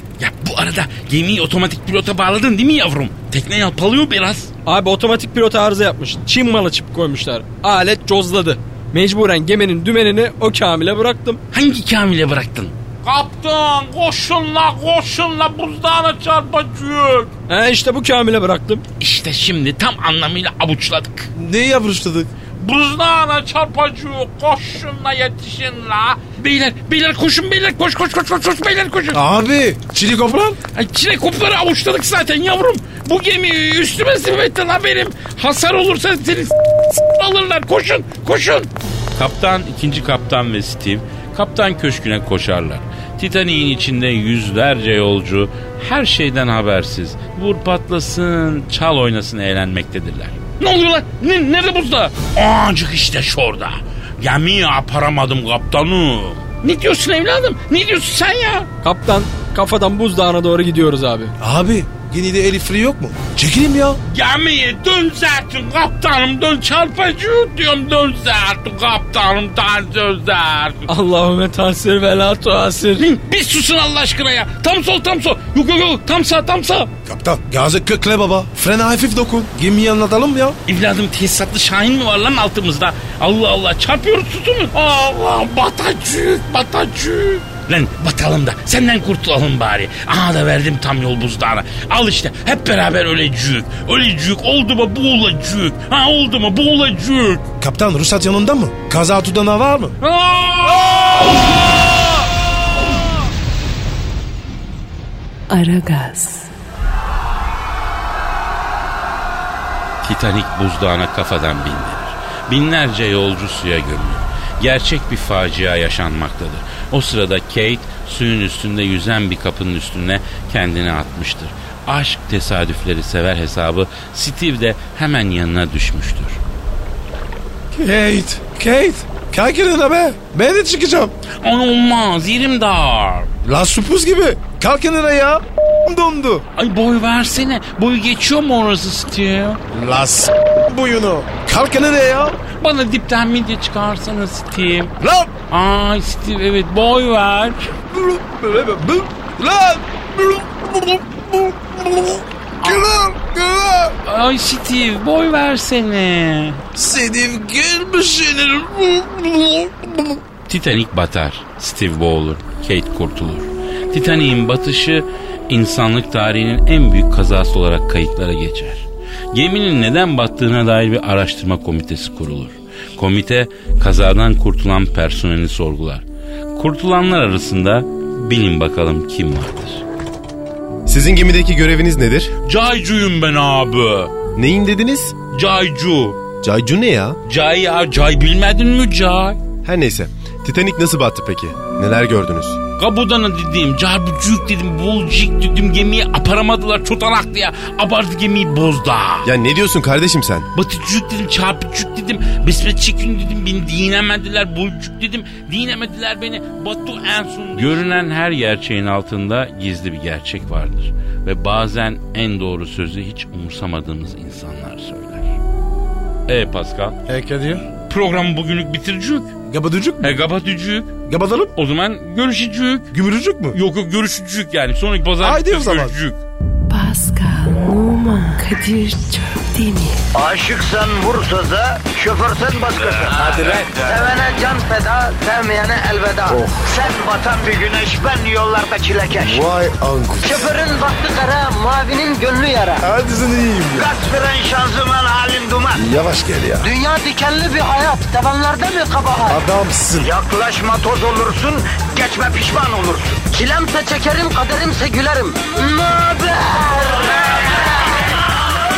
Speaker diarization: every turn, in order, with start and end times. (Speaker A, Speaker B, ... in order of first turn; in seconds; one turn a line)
Speaker A: 0.2-4.5
Speaker B: 4.7-11.4
Speaker A: 11.5-17.3
Speaker B: 17.5-18.8
Speaker A: 19.0-21.3
Speaker C: 21.4-22.3
Speaker A: 22.6-29.2
Speaker C: 29.1-30.6
Speaker A: 30.7-58.7
Speaker B: 58.8-61.3
Speaker C: 61.4-64.0
Speaker A: 64.1-70.9
Speaker B: 70.9-73.0
Speaker A: 73.0-76.9
Speaker C: 77.0-80.6
Speaker A: 80.7-97.5
Speaker C: 97.6-100.0
Speaker A: 100.0-101.6
Speaker D: 105.5-106.5
Speaker A: 110.0-126.4
Speaker C: 127.7-131.1
Speaker A: 131.4-133.3
Speaker C: 133.4-136.4
Speaker A: 136.6-139.6
Speaker C: 139.7-142.4
Speaker A: 142.6-144.9
Speaker C: 145.0-145.4
Speaker A: 145.5-147.7
Speaker C: 147.9-154.0
Speaker A: 154.0-156.6
Speaker C: 156.8-160.2
Speaker A: 160.5-176.1
Speaker A: 176.6-179.8
Speaker E: 180.9-182.3
Speaker A: 182.5-184.1
Speaker E: 184.4-185.1
Speaker A: 185.3-186.2
Speaker E: 186.4-187.2
Speaker A: 187.3-189.4
Speaker E: 189.7-192.6
Speaker A: 192.8-199.3
Speaker E: 199.2-200.5
Speaker A: 200.5-215.4
Speaker A: 216.3-217.0
Speaker C: 217.1-217.7
Speaker A: 217.9-219.3
Speaker C: 219.5-220.2
Speaker A: 220.0-220.9
Speaker C: 221.1-221.5
Speaker A: 221.6-223.0
Speaker C: 222.9-223.6
Speaker A: 223.5-226.2
Speaker C: 225.2-226.0
Speaker D: 226.7-230.0
Speaker F: 230.2-239.5
Speaker C: 239.3-240.4
Speaker F: 240.2-242.8
Speaker C: 242.8-243.9
Speaker F: 243.8-245.8
Speaker C: 245.8-246.6
Speaker F: 246.6-249.3
Speaker C: 249.3-250.1
Speaker F: 250.0-257.1